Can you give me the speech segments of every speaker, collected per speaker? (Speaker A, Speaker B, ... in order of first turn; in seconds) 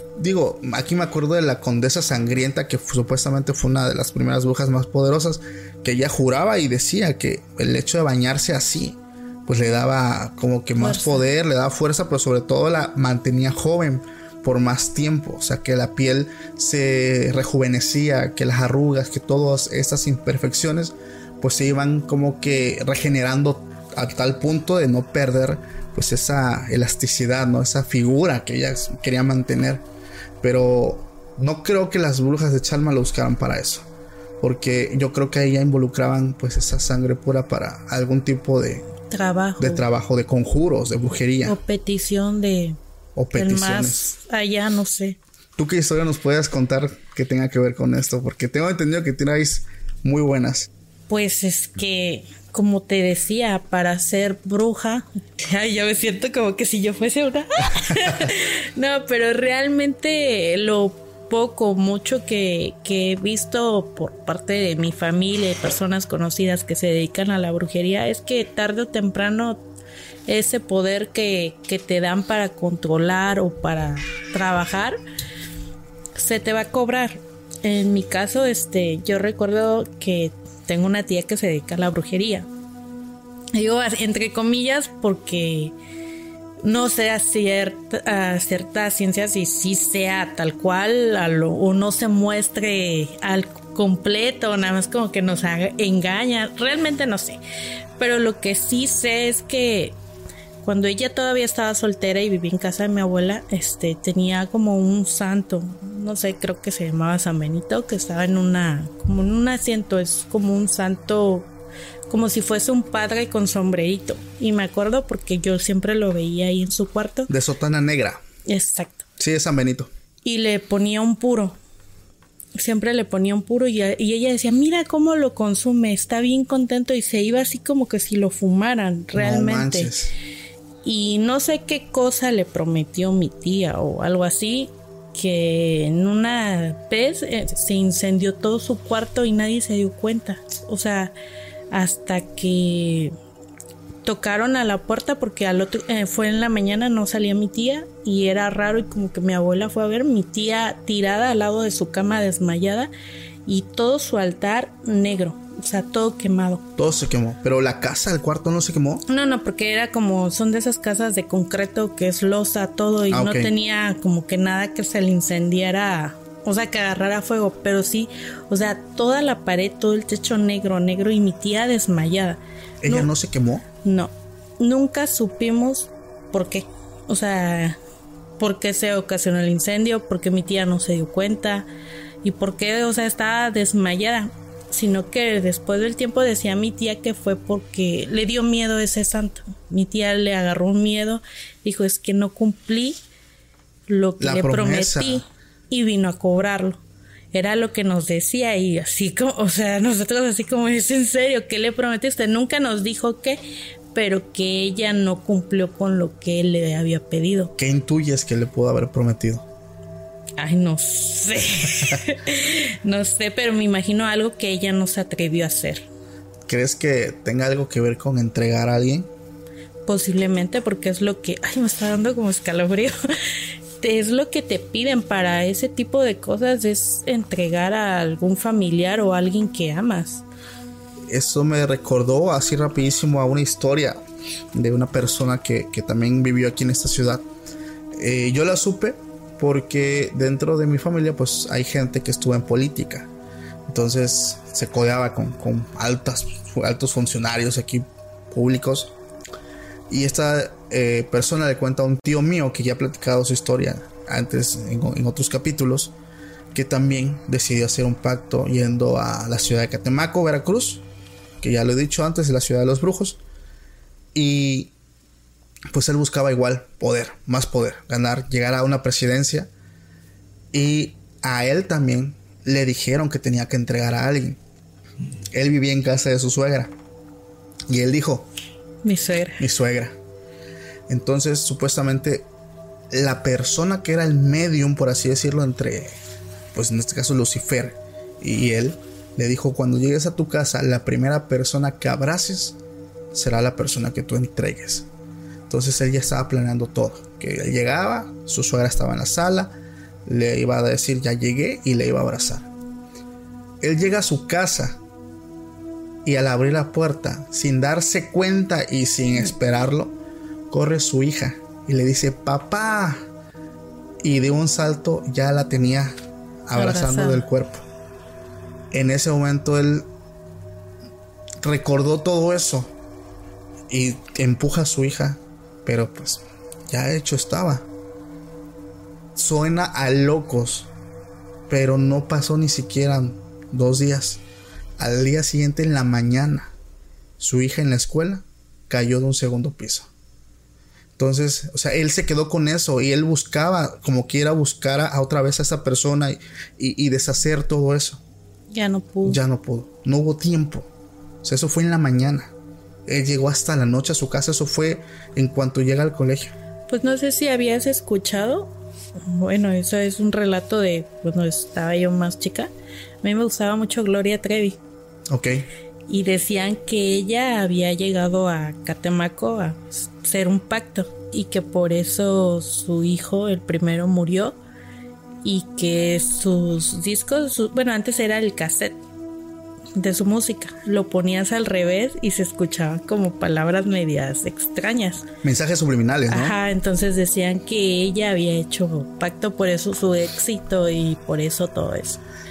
Speaker A: 0.1-29.8, 30.4-33.9, 34.4-38.8, 39.6-41.6, 43.1-44.1, 45.6-50.7, 117.3-118.2, 119.2-119.9, 129.1-130.1, 156.8-159.0, 163.1-163.5, 172.8-173.6, 194.2-195.2, 207.6-209.4, 216.5-219.1, 231.1-234.0, 234.5-237.2, 237.9-243.1, 243.7-248.9, 249.9-255.9, 256.5-260.8, 261.4-263.2, 264.1-264.7, 265.7-269.5, 270.5-274.4, 275.3-276.7, 277.7-278.3, 279.4-279.9, 280.9-282.3, 282.9-286.0, 286.5-292.6, 293.1-294.9, 295.5-302.5, 303.6-304.8, 306.0-310.0, 310.5-313.1, 314.0-317.6, 318.7-319.9, 321.4-322.7, 323.7-327.7, 329.1-330.7, 331.5-334.2, 334.8-336.5, 337.2-339.9, 341.0-348.0, 349.0-350.7, 351.2-352.3, 352.9-356.3, 365.1-365.5, 385.2-386.4
Speaker B: 10.8-11.2, 39.1-39.8, 41.4-42.8, 43.3-45.2, 51.1-69.6, 70.3-75.0, 76.2-82.5, 83.5-85.7, 86.6-97.4, 98.0-100.0, 100.6-111.5, 112.1-117.3, 118.5-119.0, 120.2-121.6, 122.5-129.9, 130.8-141.1, 141.7-143.1, 144.0-152.9, 153.4-156.6, 159.1-173.1, 173.8-177.8, 178.4-181.7, 182.2-193.0, 193.9-196.8, 197.3-203.4, 203.9-207.5, 210.4-215.9, 219.8-222.9, 223.8-230.2, 278.8-279.4, 316.5-317.3, 348.5-349.2, 356.7-358.5, 359.0-362.5, 363.0-364.6, 365.9-374.4, 375.2-378.8, 379.8-385.0, 386.1-392.0